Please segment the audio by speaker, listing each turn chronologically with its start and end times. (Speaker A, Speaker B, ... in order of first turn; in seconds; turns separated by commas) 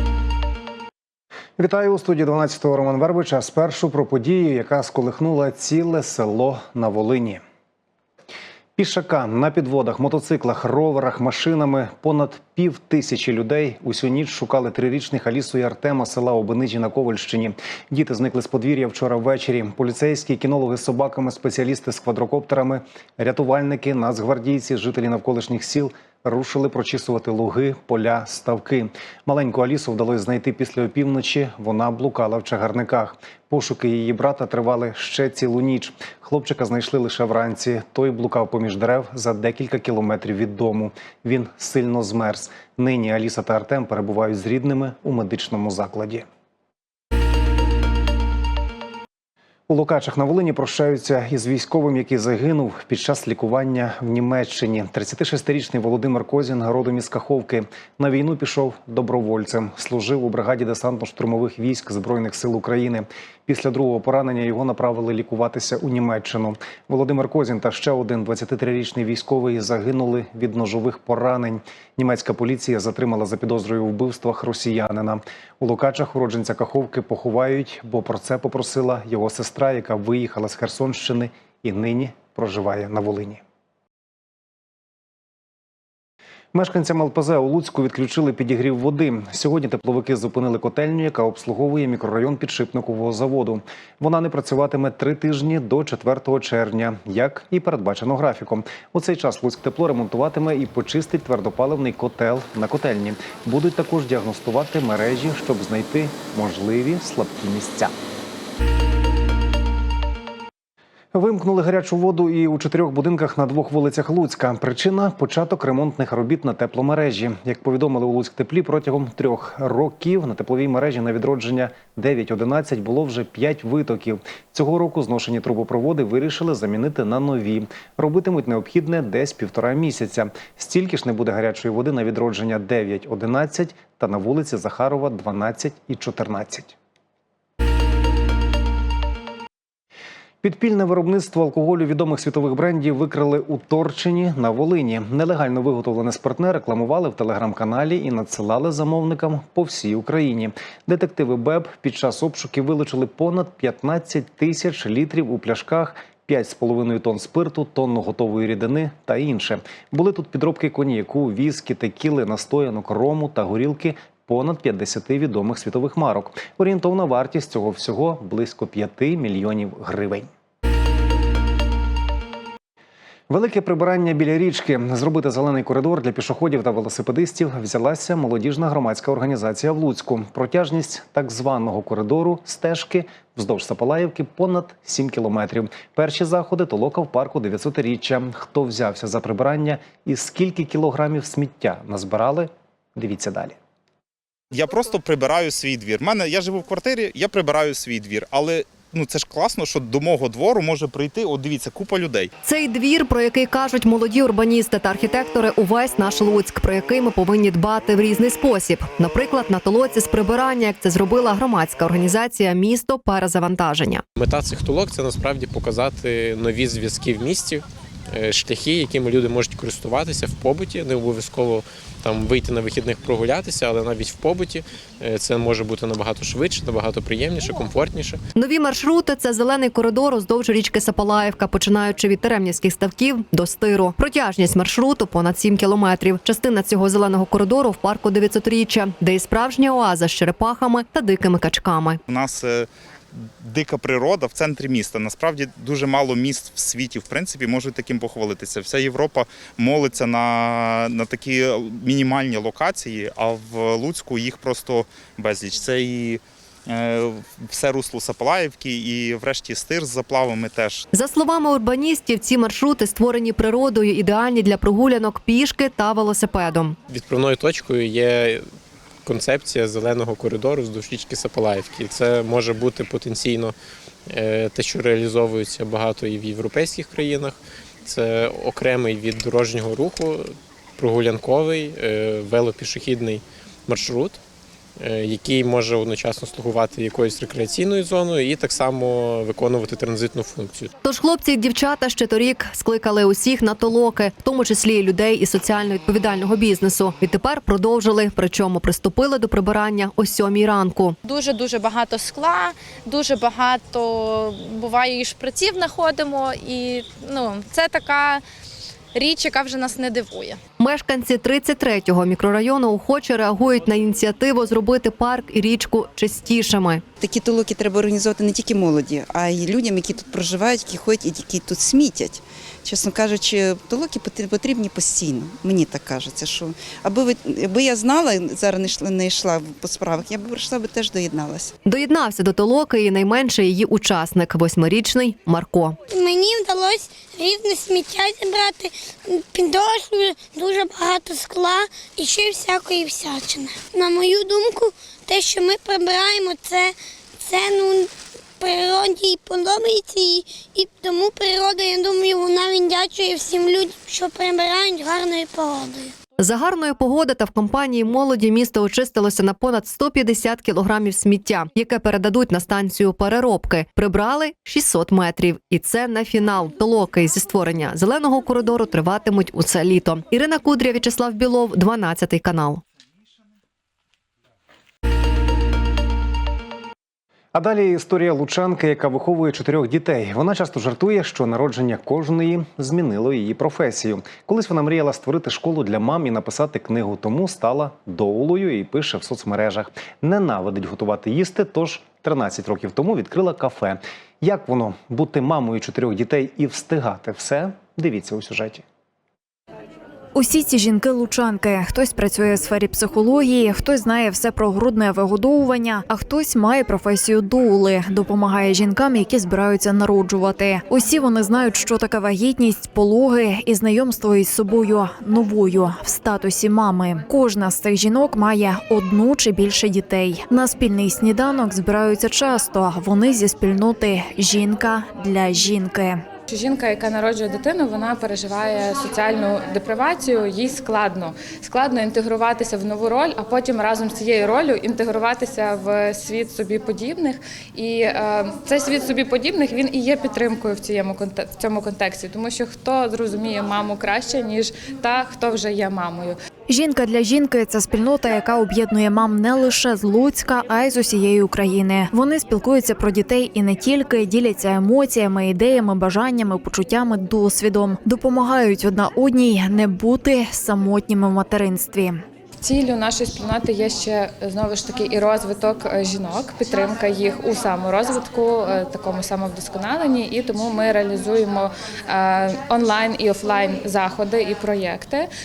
Speaker A: 1.6-7.4, Speaker A: 8.8-46.2, Speaker A: 49.7-83.4, Speaker A: 86.5-107.9, Speaker A: 111.1-136.8, Speaker A: 140.4-170.3, Speaker A: 173.3-193.6, Speaker B: 194.5-202.3, Speaker C: 202.4-214.0, Speaker D: 214.2-217.6, Speaker D: 218.2-228.1, Speaker C: 228.3-242.0, Speaker B: 242.1-242.7, Speaker B: 243.4-260.8, Speaker C: 260.9-266.8, Speaker D: 266.9-268.4, Speaker D: 269.1-273.5, Speaker D: 274.1-277.3, Speaker D: 277.9-280.1, Speaker D: 280.8-283.2, Speaker D: 283.7-284.1, Speaker D: 284.9-290.7, Speaker C: 290.8-301.0, Speaker E: 301.0-308.2, Speaker E: 308.9-310.4, Speaker C: 310.6-316.8, Speaker F: 317.0-331.5, Speaker C: 331.6-335.8, Speaker G: 335.9-355.9, Speaker C: 356.2-372.6, Speaker A: 377.3-398.6, Speaker H: 400.1-426.0, Speaker I: 426.3-446.0, Speaker H: 446.5-462.0, Speaker I: 462.5-475.0